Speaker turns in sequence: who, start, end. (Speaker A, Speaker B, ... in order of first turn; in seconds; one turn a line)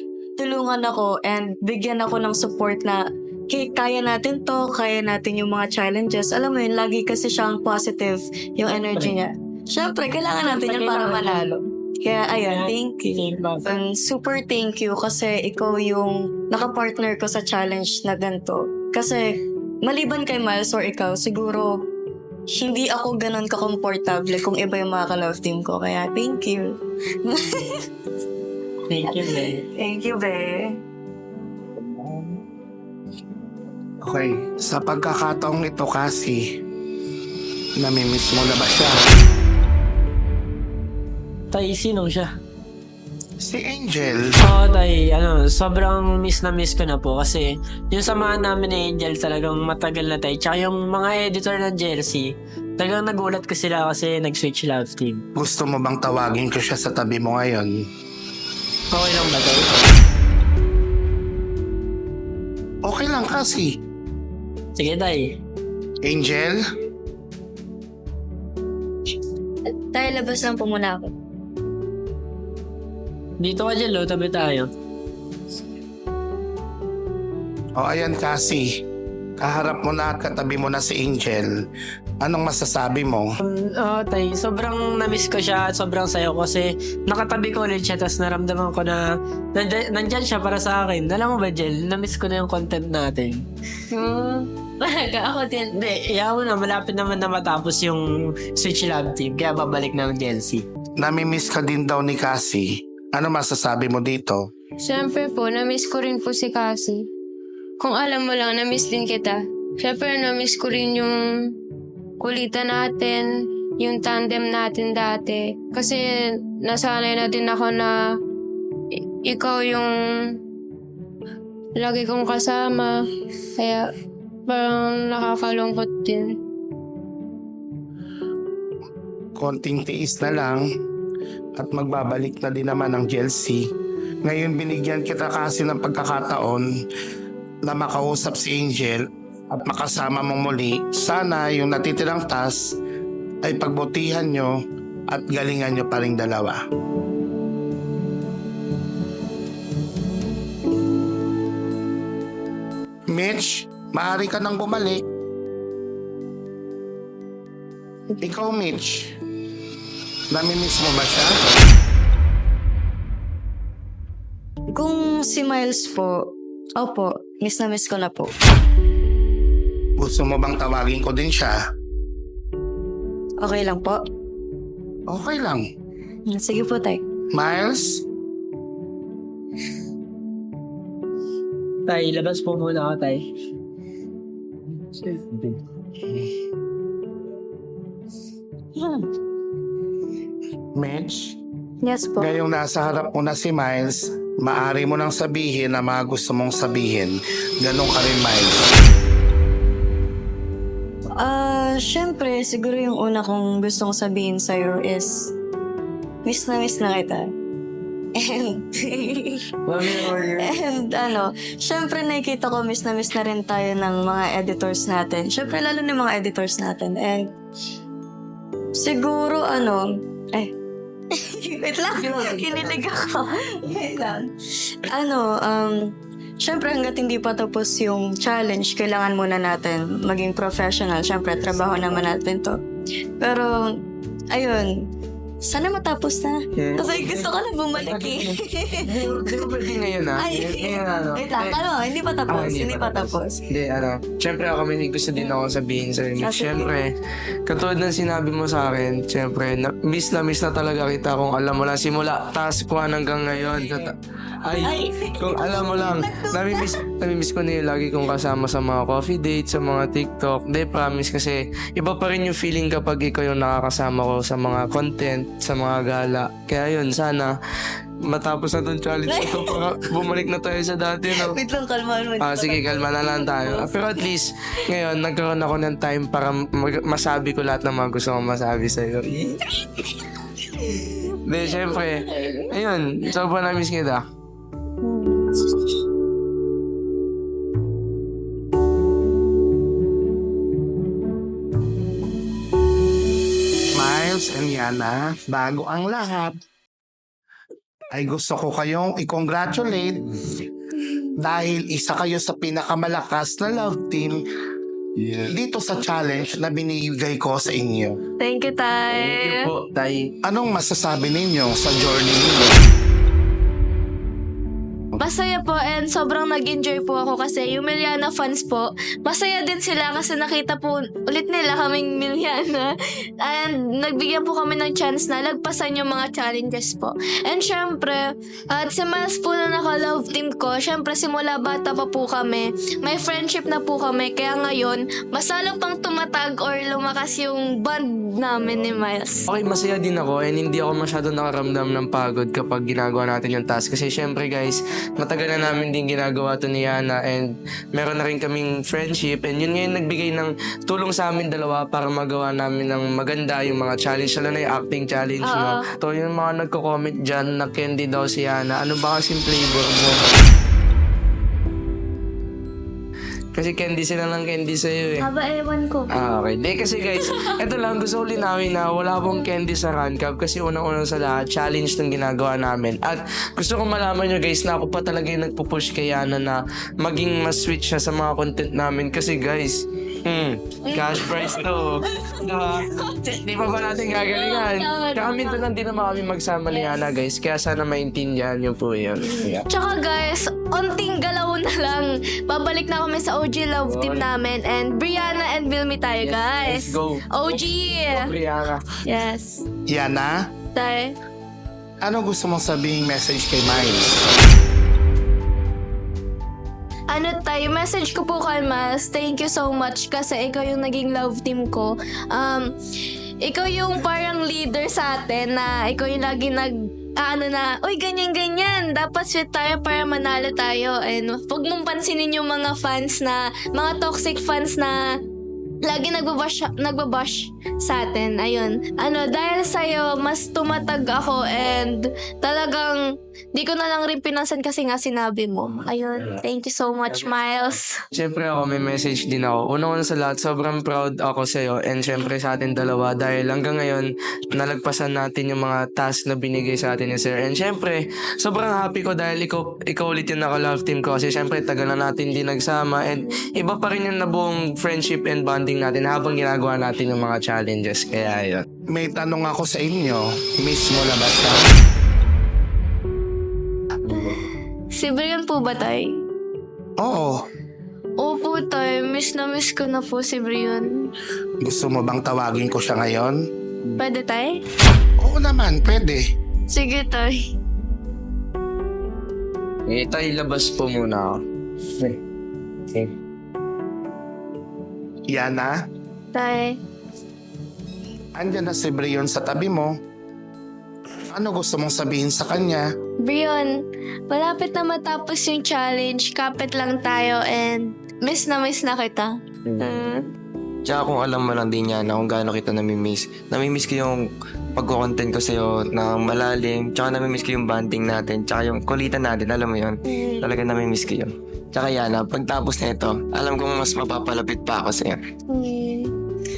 Speaker A: 0.4-19.2
Speaker B: 10.4-11.4
Speaker B: 12.5-13.6
Speaker A: 19.8-21.7
Speaker A: 22.5-27.8
Speaker B: 28.9-29.6
Speaker A: 29.0-30.7
Speaker C: 31.8-32.3
Speaker C: 34.0-36.4
Speaker C: 37.8-39.0
Speaker B: 41.5-42.3
Speaker C: 43.4-44.2
Speaker B: 44.4-55.2
Speaker C: 55.4-57.8
Speaker B: 58.9-59.7
Speaker C: 62.8-63.7
Speaker B: 64.8-65.2
Speaker C: 66.0-66.6
Speaker A: 69.9-71.1
Speaker B: 73.4-74.7
Speaker C: 77.8-78.7
Speaker C: 79.4-81.5
Speaker C: 82.2-83.3
Speaker B: 83.4-89.0
Speaker B: 89.5-93.4
Speaker D: 93.9-95.8
Speaker B: 95.7-100.6
Speaker C: 101.0-104.5
Speaker D: 104.8-107.1
Speaker D: 107.8-111.5
Speaker D: 112.2-118.2
Speaker D: 119.0-120.4
Speaker D: 121.7-123.9
Speaker D: 124.5-126.4
Speaker C: 129.3-130.6
Speaker C: 131.6-133.6
Speaker C: 134.2-136.7
Speaker C: 137.6-142.8
Speaker C: 143.4-144.5
Speaker C: 145.1-146.6
Speaker C: 153.1-155.0
Speaker C: 158.2-159.1
Speaker C: 160.3-161.3
Speaker A: 164.7-168.3
Speaker C: 170.0-171.6
Speaker A: 173.4-174.0
Speaker C: 175.1-175.6
Speaker A: 176.3-177.0
Speaker C: 177.3-178.0
Speaker B: 181.8-183.2
Speaker B: 185.0-185.5
Speaker A: 188.8-189.0
Speaker C: 190.8-191.4
Speaker A: 191.8-192.3
Speaker C: 192.2-198.7
Speaker A: 201.2-205.3
Speaker A: 206.2-207.3
Speaker A: 208.2-217.3
Speaker A: 218.8-220.5
Speaker A: 221.2-224.3
Speaker A: 224.8-232.6
Speaker A: 233.2-233.8
Speaker A: 234.3-234.7
Speaker A: 235.4-243.4
Speaker E: 236.6-241.6
Speaker E: 242.3-246.9
Speaker A: 246.2-246.7
Speaker E: 247.4-267.3
Speaker A: 254.6-256.7
Speaker E: 268.1-271.4
Speaker A: 269.1-269.7
Speaker A: 271.1-274.1
Speaker E: 272.2-279.2
Speaker E: 281.2-284.0
Speaker A: 284.9-285.1
Speaker C: 293.7-296.4
Speaker C: 297.9-300.1
Speaker C: 301.2-304.2
Speaker C: 305.3-308.0
Speaker F: 308.2-309.5
Speaker E: 308.9-310.1
Speaker C: 310.2-312.6
Speaker F: 315.0-339.2
Speaker E: 339.3-360.0
Speaker F: 355.2-355.7
Speaker E: 363.3-365.2
Speaker F: 365.2-365.9
Speaker E: 365.9-389.4
Speaker F: 380.7-383.1
Speaker F: 383.9-385.4
Speaker F: 386.5-386.8
Speaker F: 389.0-398.1
Speaker E: 393.6-394.1
Speaker E: 396.0-398.7
Speaker F: 398.8-399.4
Speaker C: 399.7-400.1
Speaker F: 400.5-400.9
Speaker C: 401.8-404.1
Speaker F: 406.9-412.5
Speaker F: 413.2-424.8
Speaker F: 425.6-432.8
Speaker F: 433.3-437.8
Speaker E: 437.9-458.4
Speaker C: 458.7-461.4
Speaker F: 463.9-466.0
Speaker C: 466.8-467.2
Speaker F: 468.0-470.9
Speaker C: 471.4-473.2
Speaker F: 473.7-474.4
Speaker C: 475.0-476.0
Speaker F: 476.5-477.2
Speaker E: 479.7-481.2
Speaker C: 485.1-485.5
Speaker F: 486.1-486.6
Speaker C: 488.1-489.7
Speaker C: 491.1-492.6
Speaker F: 493.0-500.1
Speaker G: 500.6-515.0
Speaker F: 510.0-510.3
Speaker F: 515.3-515.9